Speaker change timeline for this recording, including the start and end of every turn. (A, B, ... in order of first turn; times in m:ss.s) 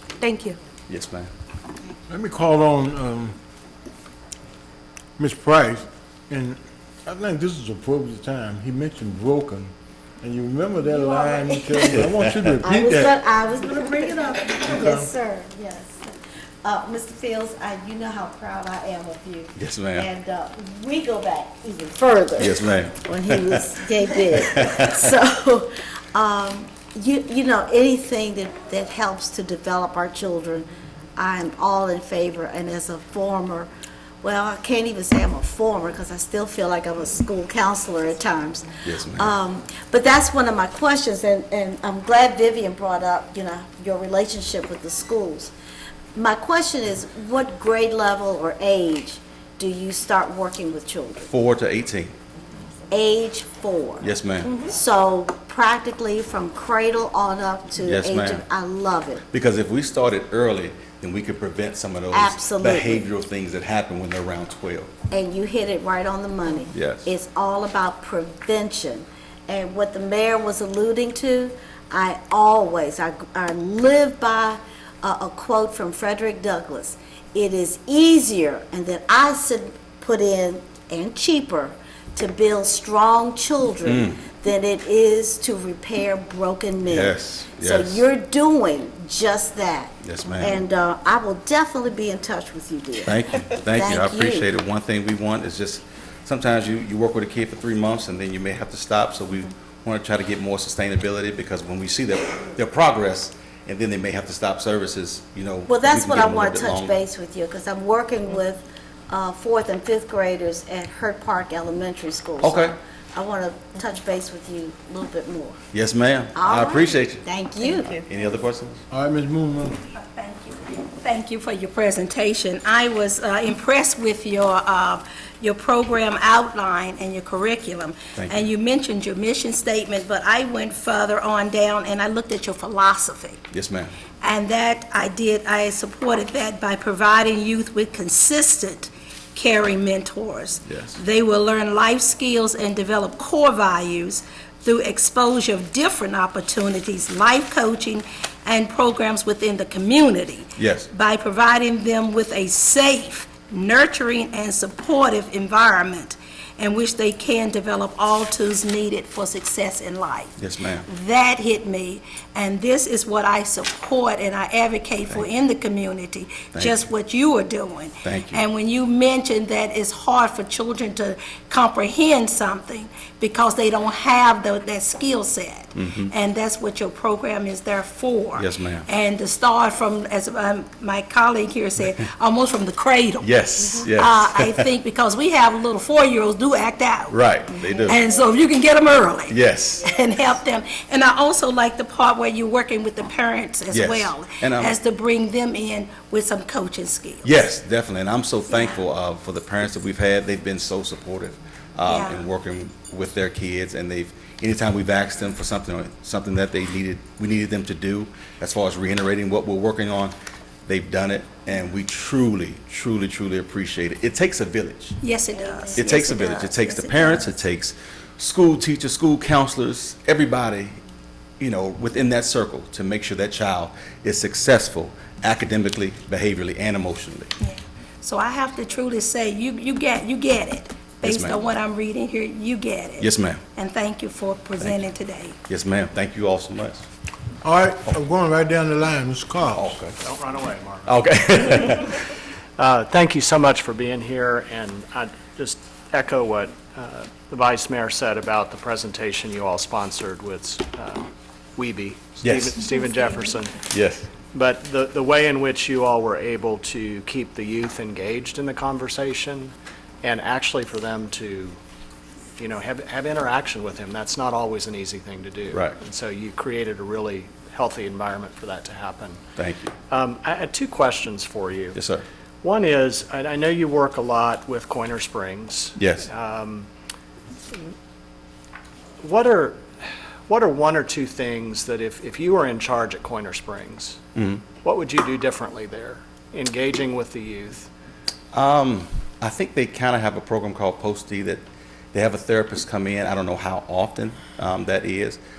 0:00.9-0:01.3 A
0:02.1-0:03.4 B
0:05.2-0:13.2 B
0:10.9-0:11.8 C
0:11.8-0:12.6 A
0:12.6-0:16.1 C
0:14.5-0:15.1 B
0:16.6-0:33.7 C
0:19.6-0:20.1 A
0:22.4-0:23.6 A
0:24.5-0:25.0 A
0:34.2-0:45.5 C
0:38.8-0:39.3 A
0:46.1-0:51.3 C
0:51.3-0:52.1 A
0:52.9-0:54.0 C
0:54.0-0:54.6 A
0:54.6-0:59.2 C
0:57.8-0:58.4 A
0:59.3-1:04.9 A
1:02.1-1:03.1 C
1:05.1-1:34.4 C
1:06.7-1:07.1 A
1:23.8-1:24.2 A
1:26.9-1:28.0 A
1:30.0-1:30.6 A
1:33.0-1:47.0 A
1:45.7-1:55.6 C
1:52.4-1:52.7 A
1:55.7-1:57.2 A
1:56.4-1:58.0 C
1:57.8-1:58.8 A
1:58.9-1:59.8 B
1:59.9-2:13.5 D
2:08.2-2:08.4 A
2:13.5-2:13.9 A
2:14.2-3:07.2 D
2:20.7-2:21.0 A
2:30.6-2:30.9 A
2:40.4-2:40.8 A
2:46.5-2:46.8 A
2:48.0-2:48.4 A
2:55.8-2:56.1 A
2:58.4-2:58.9 A
3:03.2-3:04.7 A
3:07.1-3:08.0 A
3:07.8-3:17.5 D
3:09.3-3:09.9 A
3:13.7-3:14.8 A
3:17.2-3:30.1 A
3:18.5-3:18.8 D
3:21.8-3:22.2 D
3:30.6-3:35.0 A
3:35.0-3:37.4 D
3:35.3-3:35.8 C
3:35.8-3:40.8 A
3:41.4-3:47.3 A
3:47.4-3:55.4 D
3:51.0-3:51.4 A
3:53.0-3:53.4 A
3:55.5-3:56.9 A
3:57.4-3:59.8 B
3:59.5-4:00.0 A
4:00.0-4:00.9 E
4:00.8-4:02.1 A
4:02.6-4:13.7 E
4:12.2-4:12.5 A
4:13.7-4:14.1 A
4:14.3-4:21.6 E
4:22.4-4:29.2 E
4:29.4-4:29.7 A
4:29.9-4:31.8 E
4:31.7-4:32.0 A
4:32.4-4:36.7 E
4:35.8-4:36.1 A
4:39.0-4:44.0 E
4:44.1-4:44.4 A
4:44.6-4:47.7 E
4:48.3-4:55.2 A